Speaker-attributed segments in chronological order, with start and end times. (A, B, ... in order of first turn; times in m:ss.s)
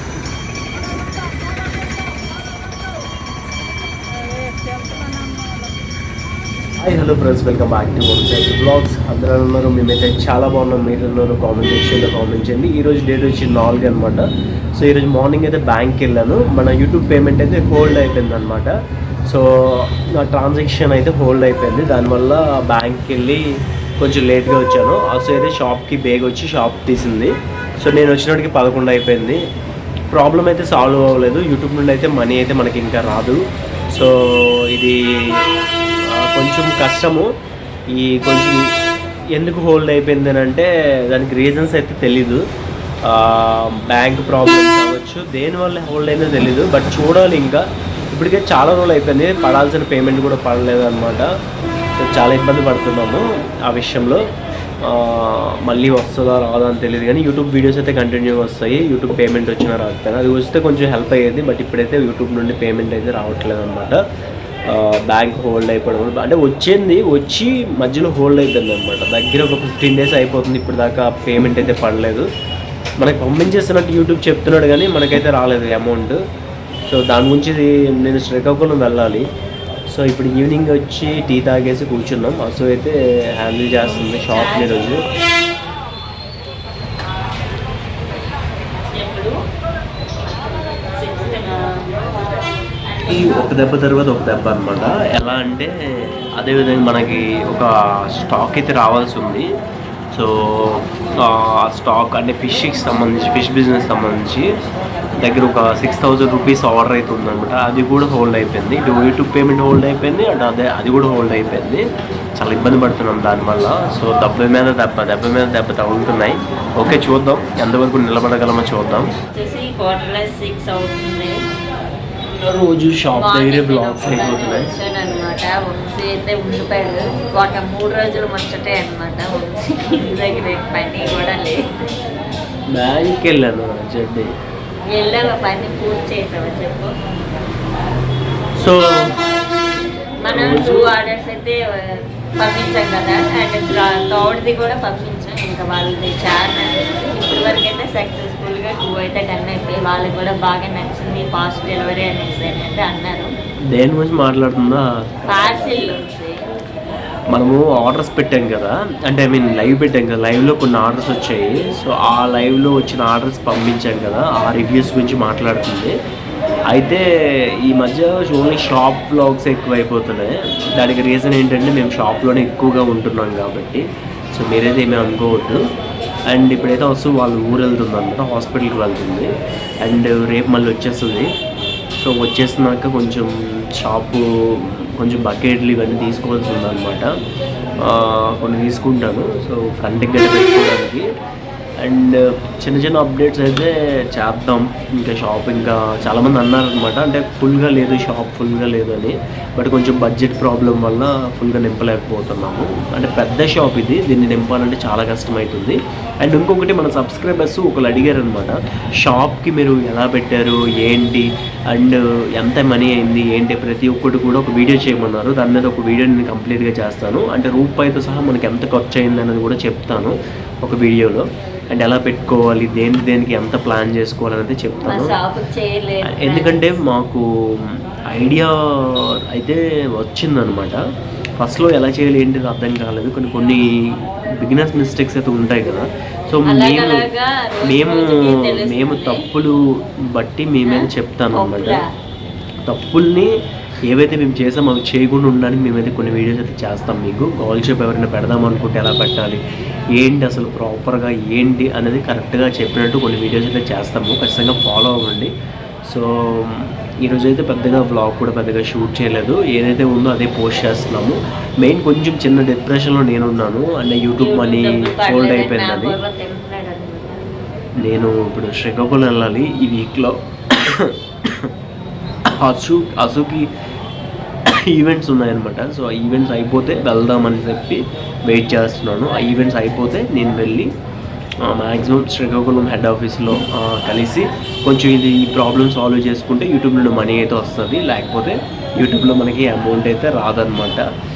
0:06.8-0:18.7 A
0:19.3-0:23.4 A
0:24.0-0:29.4 A
0:30.1-0:33.4 A
0:33.9-0:35.4 A
0:36.1-0:37.3 A
0:37.9-0:38.6 A
0:39.3-0:42.4 A
0:43.0-0:51.2 A
0:52.0-0:54.2 A
0:54.8-1:04.0 A
1:04.7-1:12.3 A
1:13.0-1:16.2 A
1:16.9-1:19.2 A
1:19.9-1:25.0 A
1:23.8-1:25.0 B
1:28.9-1:29.4 B
1:30.9-1:32.1 B
1:32.9-1:33.5 B
1:33.1-1:39.4 A
1:40.1-1:44.5 A
1:45.2-1:51.8 A
1:52.4-1:59.1 A
1:59.2-2:01.4 B
2:02.4-2:04.7 A
2:03.1-2:11.6 B
2:12.7-2:14.3 A
2:15.0-2:16.9 B
2:18.6-2:19.1 A
2:20.3-2:21.6 B
2:20.3-2:20.9 A
2:22.4-2:33.3 B
2:33.7-2:36.0 A
2:35.3-2:36.4 B
2:37.3-2:45.9 A
2:46.7-2:47.0 A
2:47.7-2:55.6 A
2:56.3-2:59.3 A
2:59.8-3:01.3 A
3:02.0-3:07.1 A
3:07.8-3:11.0 A
3:11.8-3:40.1 A
3:40.6-3:45.2 A
3:44.9-3:46.8 B
3:46.0-3:50.8 A
3:51.4-3:57.1 A
3:56.5-3:59.3 B
3:57.6-3:59.5 A
4:00.1-4:01.8 A
4:00.6-4:01.8 B
4:02.7-4:03.3 A
4:03.8-4:09.4 A
4:09.9-4:15.3 A
4:15.8-4:26.0 A
4:24.2-4:27.3 B
4:27.8-4:31.5 A
4:32.4-4:33.5 A
4:34.5-4:40.7 A
4:41.4-4:50.8 A